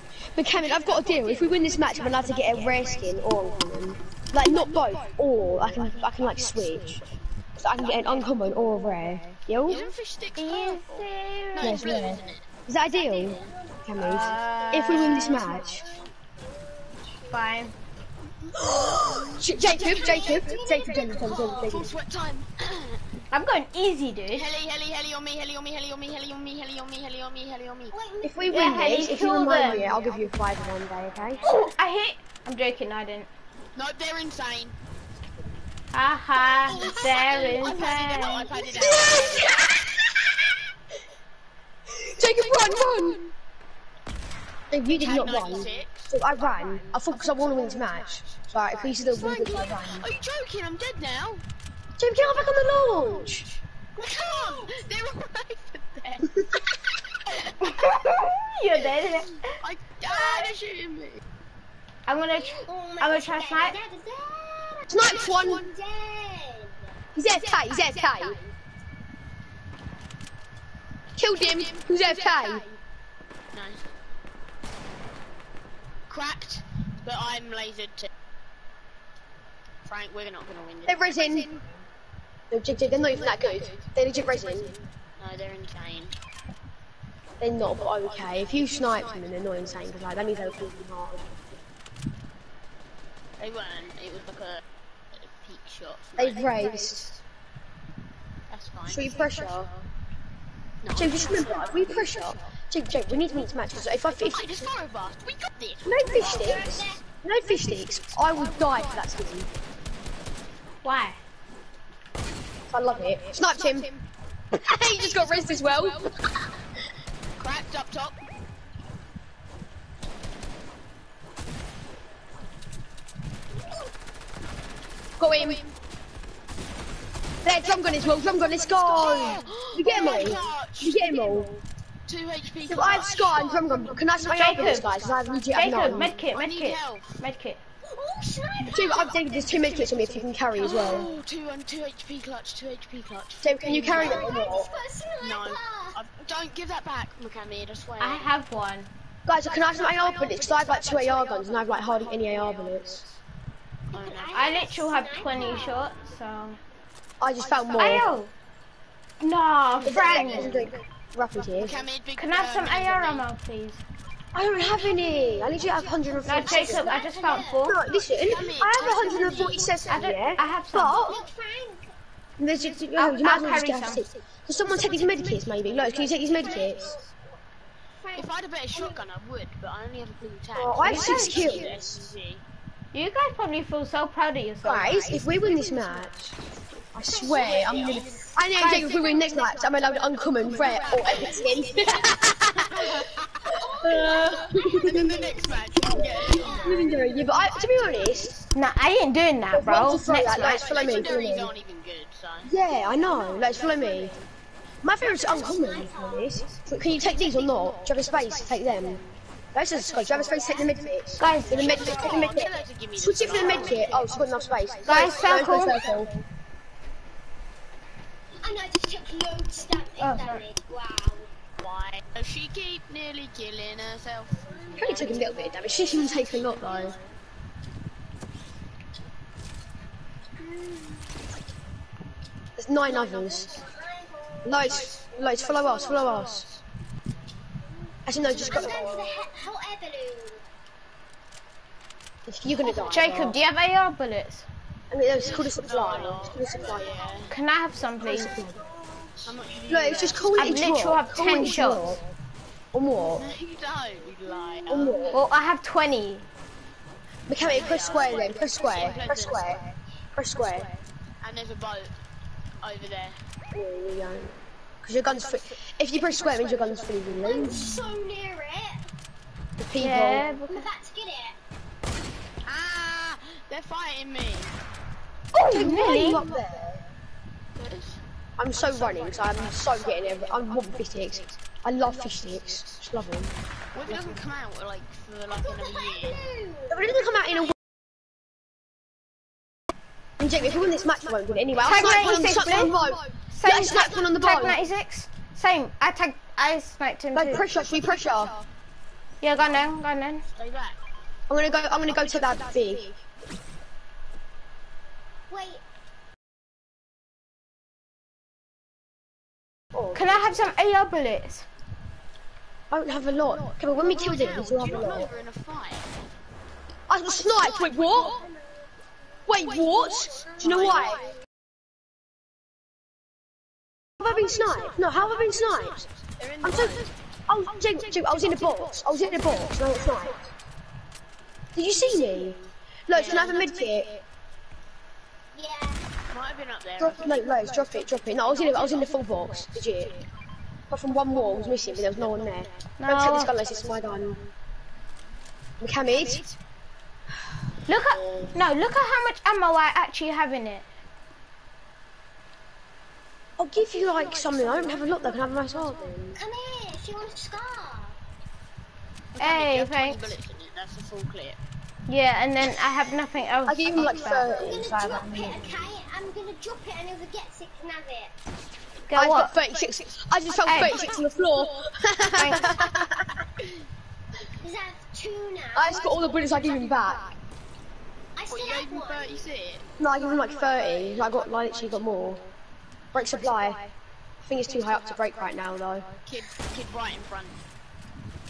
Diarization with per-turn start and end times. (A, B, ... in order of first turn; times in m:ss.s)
0:00.3-0:07.0 A
0:00.6-0:03.8 B
0:04.4-0:07.2 B
0:07.6-0:09.8 A
0:07.8-0:12.4 B
0:10.4-0:12.0 C
0:11.6-0:15.9 A
0:12.9-0:17.4 D
0:13.2-0:13.5 B
0:14.0-0:15.5 C
0:14.9-0:15.2 B
0:17.3-0:17.7 C
0:18.5-0:23.0 B
0:18.6-0:21.9 A
0:18.6-0:22.0 D
0:23.3-0:24.5 C
0:24.4-0:28.0 B
0:27.9-0:31.7 D
0:28.2-0:31.6 A
0:28.5-0:29.9 C
0:29.7-0:31.2 B
0:31.4-0:33.3 C
0:33.8-0:34.8 B
0:35.9-0:38.5 C
0:36.4-0:39.6 D
0:36.7-0:39.7 B
0:38.7-0:40.5 A
0:41.9-0:43.2 A
0:42.2-0:43.3 B
0:44.7-0:50.1 A
0:44.9-0:51.4 B
0:52.0-0:53.6 A
0:52.2-0:53.4 D
0:52.9-0:53.3 B
0:54.0-0:57.5 B
0:54.2-0:54.8 D
0:57.6-0:59.6 C
0:59.5-1:01.2 B
1:00.0-1:00.5 D
1:02.1-1:03.8 C
1:02.3-1:06.8 D
1:04.9-1:05.7 A
1:07.2-1:08.4 A
1:07.7-1:08.4 B
1:11.2-1:12.6 A
1:11.3-1:12.8 B
1:13.5-1:13.8 B
1:16.1-1:18.1 B
1:19.8-1:21.6 B
1:20.9-1:21.6 A
1:22.5-1:24.7 A
1:23.2-1:23.9 B
1:24.6-1:26.2 B
1:27.4-1:31.3 A
1:27.6-1:30.6 B
1:33.4-1:36.9 B
1:36.2-1:37.2 A
1:38.5-1:39.9 B
1:38.9-1:39.7 A
1:40.8-1:42.5 B
1:40.9-1:44.5 A
1:43.3-1:49.2 B
1:45.8-1:49.5 A
1:46.1-1:47.0 D
1:50.8-1:51.2 C
1:52.7-1:53.9 A
1:53.3-1:54.0 B
1:54.5-1:56.1 A
1:55.0-1:56.1 B
1:57.4-1:58.2 B
2:05.2-2:05.6 A
2:05.4-2:05.7 B
2:07.4-2:11.5 A
2:07.6-2:11.5 B
2:08.1-2:10.5 D
2:12.1-2:17.2 B
2:12.7-2:16.2 A
2:14.3-2:14.9 C
2:15.5-2:17.6 C
2:17.8-2:21.1 D
2:18.6-2:19.1 B
2:18.7-2:21.1 A
2:20.5-2:24.4 B
2:23.4-2:24.7 A
2:23.8-2:26.0 D
2:25.2-2:28.3 B
2:28.0-2:28.9 C
2:29.3-2:33.0 A
2:29.4-2:31.5 D
2:30.8-2:33.2 B
2:33.9-2:34.6 B
2:33.9-2:36.0 D
2:34.3-2:36.6 C
2:37.2-2:38.1 A
2:37.4-2:38.1 B
2:37.8-2:38.3 C
2:39.2-2:40.7 C
2:39.8-2:41.8 A
2:40.0-2:40.7 B
2:41.4-2:43.3 B
2:42.2-2:43.8 C
2:44.3-2:47.0 A
2:44.4-2:50.2 D
2:46.2-2:47.8 C
2:47.6-2:51.2 A
2:48.1-2:49.8 B
2:49.9-2:51.0 C
2:51.0-2:51.9 D
2:52.4-2:57.0 A
2:52.7-2:54.0 C
2:54.6-2:57.2 D
2:55.6-2:56.9 B
2:58.0-2:59.0 D
2:58.2-3:02.4 B
3:00.6-3:01.7 A
3:00.8-3:01.6 C
3:01.0-3:02.1 D
3:02.9-3:05.3 C
3:04.6-3:06.1 A
3:05.4-3:06.2 B
3:07.0-3:13.1 A
3:07.0-3:09.8 D
3:07.3-3:08.1 B
3:08.7-3:18.2 B
3:10.4-3:12.4 D
3:13.5-3:18.4 D
3:13.8-3:15.2 A
3:16.4-3:18.4 A
3:18.5-3:20.7 C
3:19.5-3:21.5 A
3:20.4-3:22.5 B
3:21.0-3:21.3 D
3:22.4-3:24.2 A
3:22.6-3:24.1 D
3:23.7-3:24.2 B
3:24.8-3:29.0 A
3:25.0-3:26.5 D
3:27.0-3:29.1 B
3:29.5-3:36.1 A
3:29.7-3:36.1 B
3:29.8-3:32.7 D
3:31.2-3:32.0 C
3:33.2-3:35.5 D
3:34.8-3:35.9 C
3:38.4-3:41.3 D
3:40.0-3:40.5 C
3:41.6-3:47.1 B
3:44.4-3:47.0 D
3:44.8-3:47.0 A
3:52.6-3:53.6 A
3:52.8-3:55.1 D
3:54.4-3:56.5 A
3:54.6-3:56.6 B
3:55.7-3:56.1 D
3:58.1-3:59.1 A
3:58.2-4:00.5 D
3:58.2-3:59.2 B
4:02.3-4:03.4 A
4:02.6-4:03.0 B
4:02.9-4:04.5 C
4:04.9-4:07.0 A
4:05.2-4:07.3 B
4:05.3-4:07.3 D
4:07.3-4:08.3 C
4:08.0-4:08.6 A
4:08.1-4:09.3 D
4:09.2-4:10.7 B
4:09.7-4:12.0 A
4:10.3-4:12.0 C
4:12.7-4:13.3 A
4:13.0-4:15.2 B
4:14.7-4:15.2 A
4:14.7-4:15.2 D
4:15.1-4:16.3 C
4:17.3-4:19.6 A
4:17.4-4:19.8 B
4:17.8-4:19.1 D
4:20.2-4:20.7 A
4:20.3-4:22.0 B
4:22.6-4:23.2 B
4:23.5-4:24.3 A
4:24.8-4:27.9 A
4:25.1-4:27.3 B
4:27.2-4:28.9 D
4:29.6-4:30.3 A
4:29.8-4:30.7 C
4:30.5-4:31.4 D
4:32.5-4:34.6 B
4:35.3-4:36.3 C
4:35.4-4:36.8 A
4:35.9-4:36.6 D
4:37.6-4:38.0 B
4:38.4-4:43.3 A
4:38.5-4:41.3 B
4:41.8-4:42.8 B
4:43.7-4:46.2 B
4:43.9-4:44.2 A
4:45.4-4:47.0 D
4:46.7-4:47.5 A
4:50.2-4:54.6 A
4:51.5-4:53.0 B
4:51.6-4:52.8 C
4:53.3-4:57.5 C
4:57.1-4:58.4 A
4:57.5-4:58.4 B
4:59.2-5:00.2 C
5:00.3-5:00.8 B
5:01.3-5:02.8 A
5:01.9-5:02.9 B
5:05.3-5:05.6 D
5:09.7-5:10.2 A
5:09.9-5:11.5 C
5:12.7-5:15.1 A
5:13.2-5:16.0 B
5:16.9-5:18.2 A
5:17.1-5:18.2 B
5:19.3-5:21.0 A
5:19.3-5:21.2 B
5:20.3-5:21.2 D
5:24.0-5:25.9 A
5:24.0-5:26.9 B
5:26.4-5:30.2 A
5:27.8-5:30.2 B
5:31.6-5:33.9 A
5:32.9-5:34.0 B
5:35.3-5:35.8 D
5:36.1-5:40.0 B
5:36.8-5:39.9 A
5:40.7-5:44.2 A
5:41.1-5:44.3 B
5:42.8-5:43.4 C
5:45.6-5:46.2 A
5:45.9-5:46.3 B
5:47.7-5:50.7 C
5:47.9-5:48.3 B
5:53.4-5:56.2 A
5:53.6-5:56.0 B
5:56.2-5:58.0 D
5:59.2-6:01.4 B
5:59.2-6:00.0 C
6:01.9-6:04.4 C
6:03.5-6:05.6 A
6:03.8-6:08.1 D
6:03.8-6:04.6 B
6:08.9-6:09.4 C
6:08.9-6:13.2 A
6:09.4-6:09.8 B
6:10.3-6:10.9 C
6:10.4-6:11.7 B
6:12.1-6:12.6 C
6:14.4-6:16.0 D
6:15.6-6:17.0 A
6:15.7-6:17.2 B
6:18.2-6:19.3 D
6:18.3-6:22.3 B
6:19.8-6:22.2 A
6:22.9-6:23.6 A
6:23.0-6:23.7 B
6:24.2-6:25.8 A
6:24.4-6:27.4 B